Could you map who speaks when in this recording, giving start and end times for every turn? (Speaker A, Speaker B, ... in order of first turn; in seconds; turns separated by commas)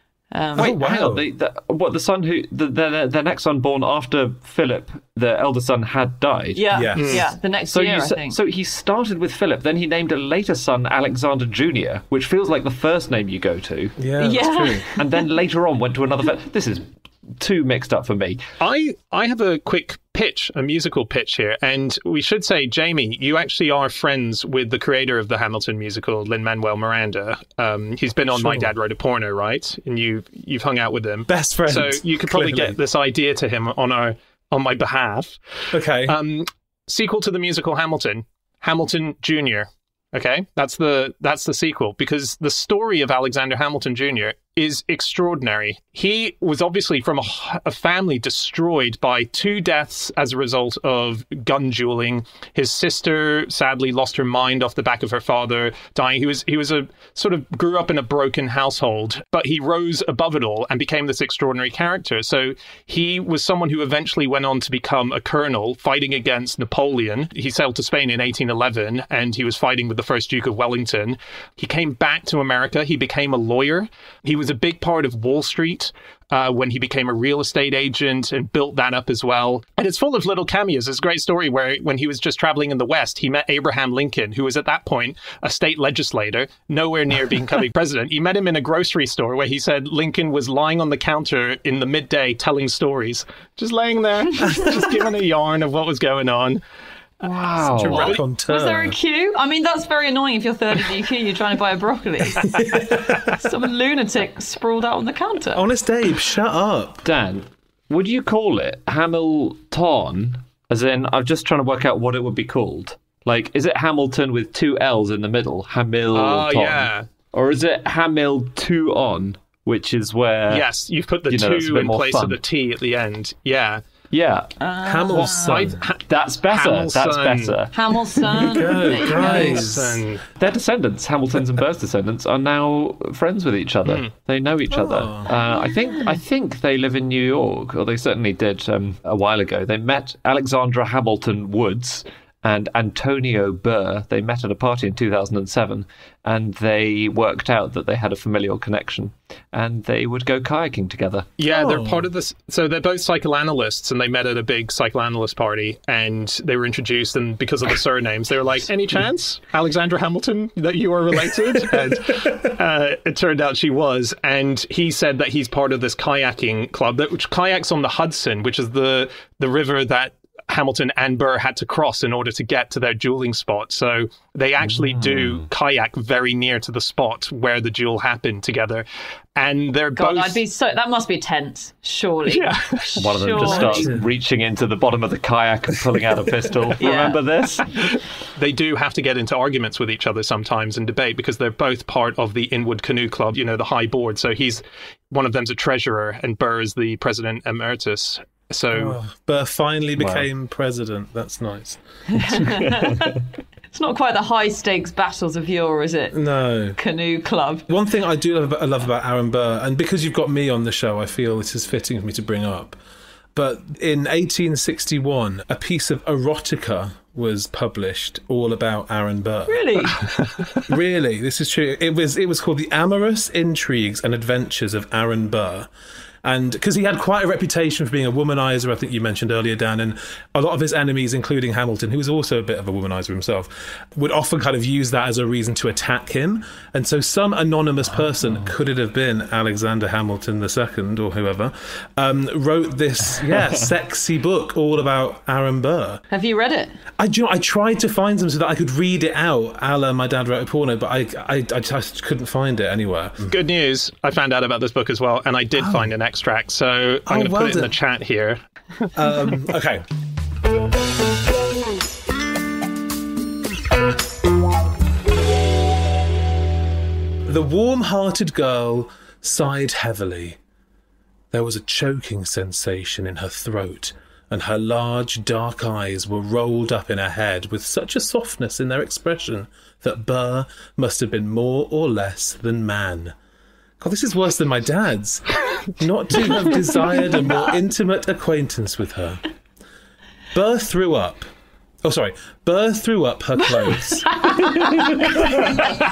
Speaker A: 0.3-0.8, Speaker B: 0.6-1.3, Speaker C: 0.6-6.7, Speaker A: 6.5-8.4, Speaker B: 6.7-7.2, Speaker D: 7.0-7.2, Speaker C: 7.7-14.0, Speaker B: 14.0-14.9, Speaker A: 14.2-15.2, Speaker C: 15.0-18.4, Speaker D: 18.6-35.4, Speaker B: 28.3-28.7, Speaker B: 31.3-32.8, Speaker B: 35.7-36.2, Speaker D: 36.1-96.6, Speaker C: 97.2-98.2, Speaker B: 97.6-99.0, Speaker A: 98.4-105.7, Speaker B: 102.4-103.4, Speaker B: 105.5-107.1, Speaker C: 107.0-120.7, Speaker D: 116.1-117.1, Speaker D: 120.5-123.8, Speaker C: 121.3-122.4, Speaker C: 124.1-124.5, Speaker A: 124.6-125.6, Speaker B: 124.8-125.8, Speaker D: 125.1-127.5, Speaker C: 126.1-128.3, Speaker A: 127.7-129.7, Speaker B: 128.4-130.0, Speaker D: 128.9-130.2, Speaker C: 130.4-151.3, Speaker B: 134.7-135.3, Speaker D: 151.4-178.8, Speaker B: 151.5-152.1, Speaker C: 174.7-175.5, Speaker D: 179.4-180.4, Speaker A: 180.0-184.0, Speaker D: 182.3-183.0, Speaker C: 183.0-187.8, Speaker B: 183.4-184.1, Speaker A: 186.8-187.2, Speaker D: 188.4-199.0, Speaker B: 198.7-202.6, Speaker C: 200.0-200.3, Speaker A: 202.1-203.2, Speaker A: 203.7-206.2, Speaker B: 206.1-206.8, Speaker A: 206.8-207.7, Speaker B: 207.7-212.8, Speaker B: 213.3-219.9, Speaker A: 219.5-220.0, Speaker D: 220.0-220.6, Speaker B: 220.7-225.7, Speaker B: 226.2-246.0, Speaker A: 246.1-246.8, Speaker B: 247.0-253.3, Speaker D: 253.3-258.4, Speaker B: 255.6-255.9, Speaker B: 257.1-257.8, Speaker B: 258.9-259.8, Speaker B: 267.3-270.4, Speaker B: 271.3-283.1, Speaker B: 283.8-289.2, Speaker B: 290.3-291.3, Speaker B: 291.8-295.7, Speaker A: 294.2-294.7